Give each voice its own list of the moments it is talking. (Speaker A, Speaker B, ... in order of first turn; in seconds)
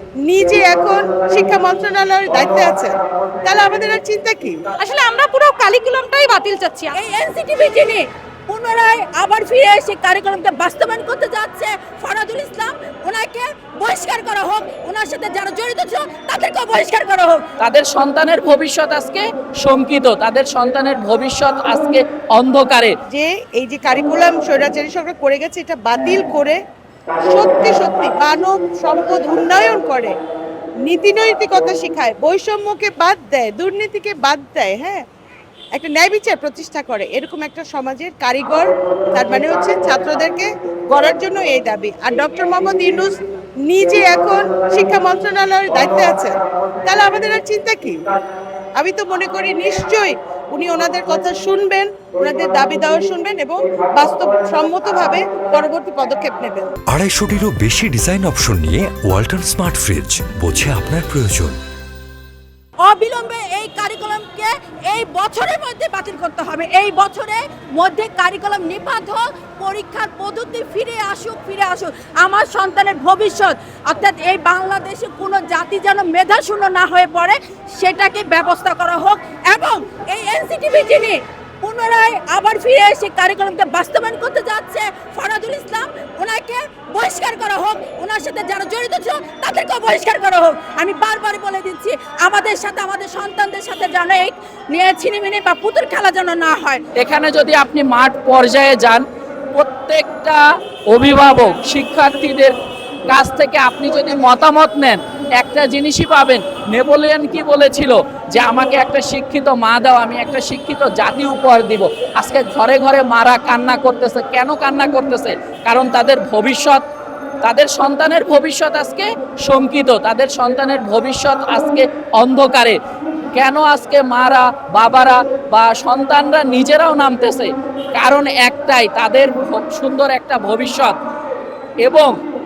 Speaker A: 0.2-2.9, 3.4-4.6, 23.1-26.6, 27.2-30.1, 30.8-35.0, 35.7-48.0, 48.8-56.7
Speaker B: 4.8-6.9
Speaker C: 7.0-17.4, 62.8-96.8
Speaker D: 17.6-22.9, 97.0-102.5, 103.1-116.8, 117.4-122.8, 123.3-131.0, 131.8-132.2
Speaker E: 56.9-61.6